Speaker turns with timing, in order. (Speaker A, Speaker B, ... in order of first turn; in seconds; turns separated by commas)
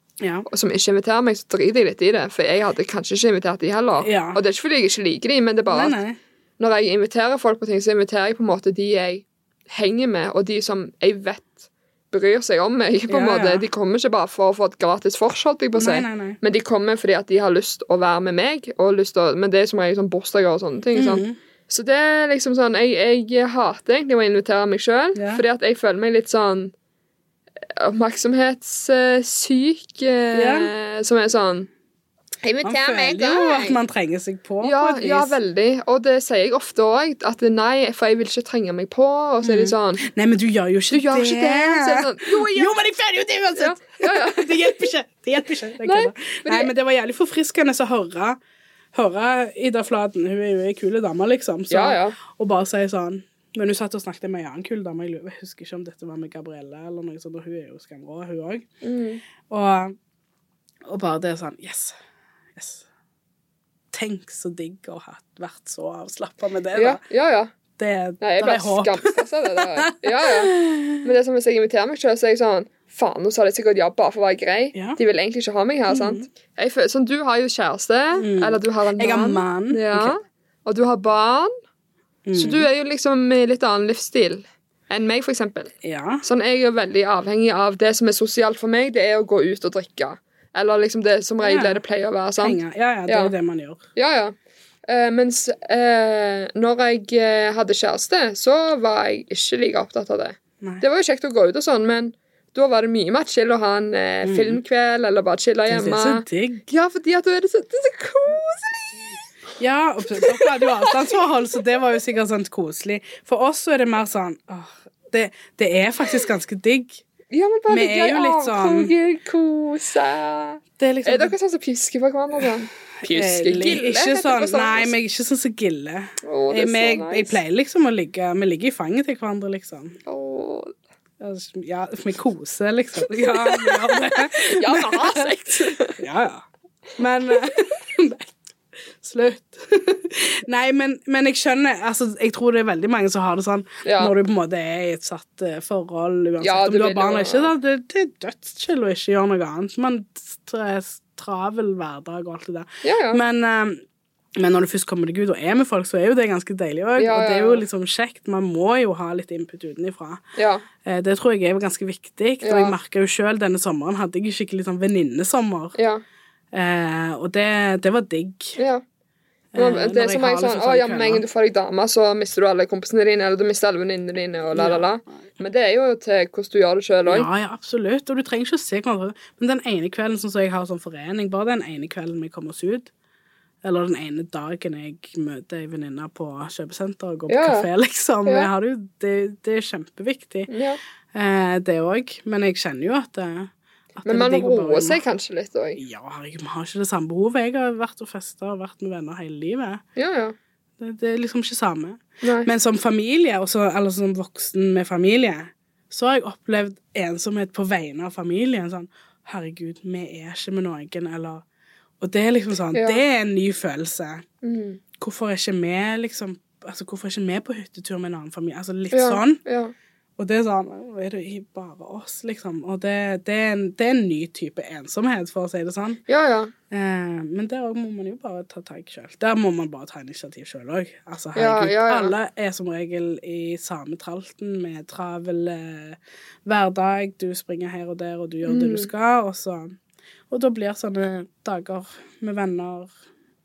Speaker A: 0.2-0.5, Speaker B: 0.5-6.0, Speaker A: 4.0-4.4, Speaker A: 5.7-6.2, Speaker B: 6.6-11.6, Speaker B: 12.1-26.7, Speaker A: 13.1-13.7, Speaker A: 15.8-16.4, Speaker A: 20.9-21.4, Speaker A: 25.1-25.4, Speaker B: 27.8-31.7, Speaker A: 30.3-30.7, Speaker B: 32.4-33.8, Speaker A: 32.6-35.4, Speaker B: 34.6-40.0, Speaker A: 39.4-48.4, Speaker B: 40.9-42.8, Speaker B: 43.5-44.9, Speaker B: 45.8-46.7, Speaker A: 48.9-58.7, Speaker B: 51.7-52.2, Speaker B: 58.8-59.2, Speaker A: 59.5-59.9, Speaker A: 60.9-61.9, Speaker A: 62.5-62.9, Speaker A: 63.9-67.0, Speaker B: 66.7-67.5, Speaker A: 67.8-71.1, Speaker B: 68.2-81.5, Speaker A: 74.7-75.0, Speaker A: 75.9-76.3, Speaker A: 78.2-80.1, Speaker A: 82.2-82.7, Speaker B: 82.3-93.3, Speaker A: 85.8-86.2, Speaker A: 91.4-91.8, Speaker A: 92.4-93.8, Speaker B: 93.9-94.3, Speaker B: 94.9-108.9, Speaker A: 104.2-104.6, Speaker A: 105.7-106.6, Speaker A: 109.6-117.0, Speaker B: 110.1-111.2, Speaker B: 117.3-124.9, Speaker A: 117.7-118.9, Speaker A: 120.8-121.4, Speaker A: 123.0-130.0, Speaker B: 126.2-127.4, Speaker B: 130.1-130.7, Speaker A: 131.2-135.3, Speaker B: 133.1-136.0, Speaker A: 136.0-138.3, Speaker A: 139.0-153.8, Speaker B: 143.8-144.1, Speaker B: 146.4-147.5, Speaker B: 152.8-153.2, Speaker A: 154.4-160.2, Speaker B: 157.0-157.6, Speaker B: 160.3-160.7, Speaker A: 160.8-165.8, Speaker B: 162.4-162.8, Speaker B: 165.8-166.0, Speaker A: 166.5-168.6, Speaker B: 168.6-168.8, Speaker A: 169.5-171.2, Speaker B: 169.6-177.3, Speaker A: 174.5-174.9, Speaker A: 177.1-182.9, Speaker A: 183.6-190.5, Speaker B: 187.3-187.7, Speaker B: 190.5-190.8, Speaker A: 191.1-195.0, Speaker B: 194.1-195.8, Speaker A: 195.8-199.8, Speaker B: 199.9-200.3, Speaker A: 200.8-211.4, Speaker B: 202.2-202.5, Speaker A: 212.0-214.2, Speaker B: 212.7-213.0, Speaker B: 214.4-214.8, Speaker A: 215.0-219.4, Speaker B: 218.9-219.7, Speaker A: 220.2-226.0, Speaker B: 226.1-226.5, Speaker A: 226.7-242.9, Speaker B: 231.3-232.1, Speaker B: 238.4-238.9